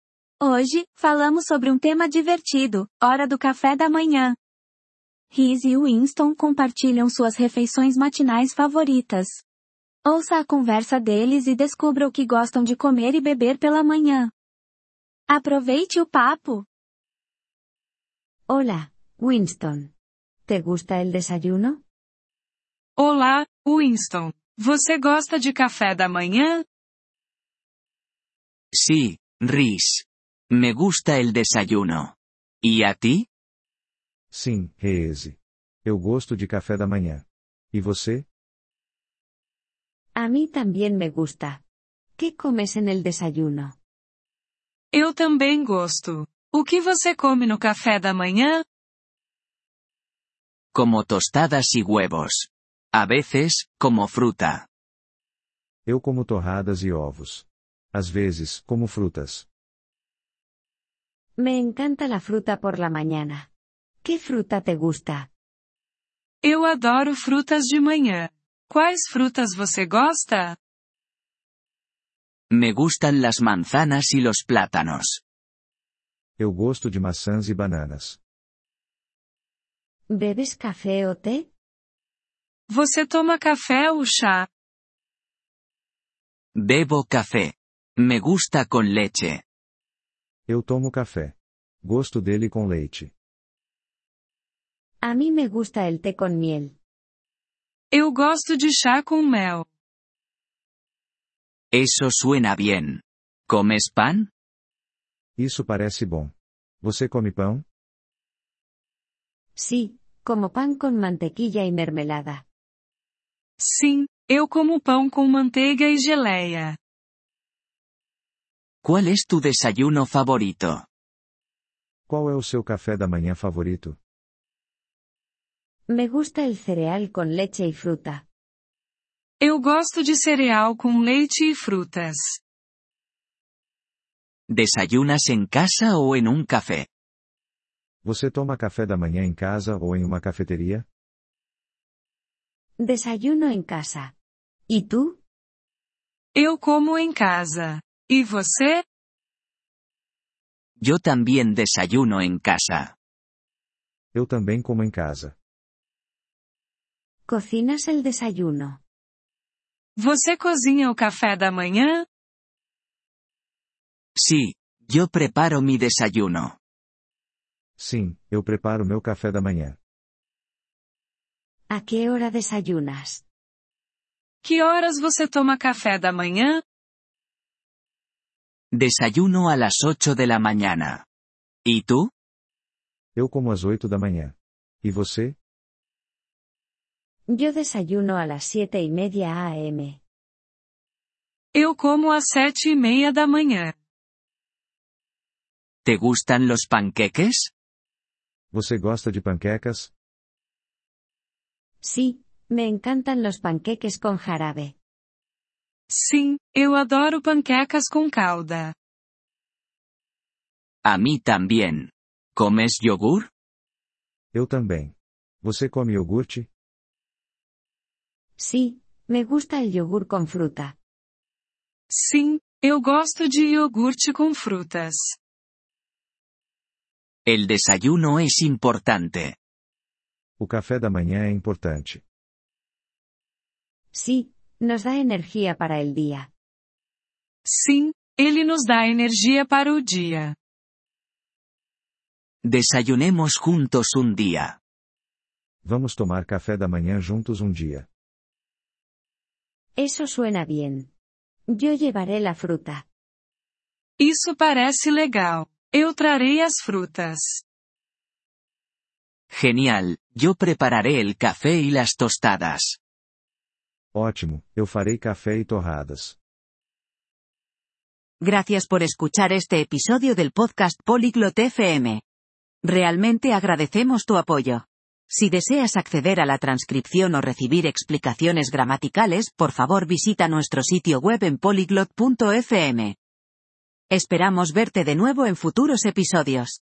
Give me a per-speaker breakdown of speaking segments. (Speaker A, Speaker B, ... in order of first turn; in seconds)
Speaker A: 0.4-4.3, 5.3-9.4, 10.0-14.3, 15.3-16.6
Speaker B: 18.5-19.9, 20.5-21.8, 40.2-41.6, 42.2-43.7, 61.4-63.5, 64.0-65.3, 80.1-81.5, 95.0-96.7, 109.6-112.4, 125.9-128.2, 142.8-144.1, 144.7-145.2, 157.3-158.8, 171.7-173.2, 187.3-190.0, 201.8-204.7, 218.4-220.7, 233.9-236.3, 249.8-250.9, 251.5-252.8
Speaker C: 23.0-26.6, 44.9-48.6, 66.4-70.6, 82.7-84.5, 97.9-99.7, 113.6-116.8, 129.4-132.4, 146.3-148.8, 160.0-162.1, 174.4-176.6, 191.5-193.7, 205.9-208.7, 221.9-225.2, 237.4-240.3, 254.0-257.4
Speaker D: 28.7-33.2, 50.7-54.6, 72.5-75.2, 86.5-89.4, 101.7-104.3, 118.8-120.8, 134.5-136.9, 150.8-152.9, 164.2-166.6, 178.7-181.0, 181.6-182.1, 195.8-197.5, 210.8-213.3, 227.2-229.3, 242.4-244.6, 259.3-262.8
Speaker E: 34.3-38.2, 55.9-59.5, 76.4-78.2, 90.5-93.1, 105.4-107.6, 122.1-124.0, 138.0-140.8, 154.1-155.3, 167.8-169.8, 183.2-185.3, 198.5-199.9, 214.3-216.5, 230.4-232.0, 245.6-247.9, 263.9-266.2
Speaker F: 268.2-272.0, 272.6-282.9, 283.9-286.6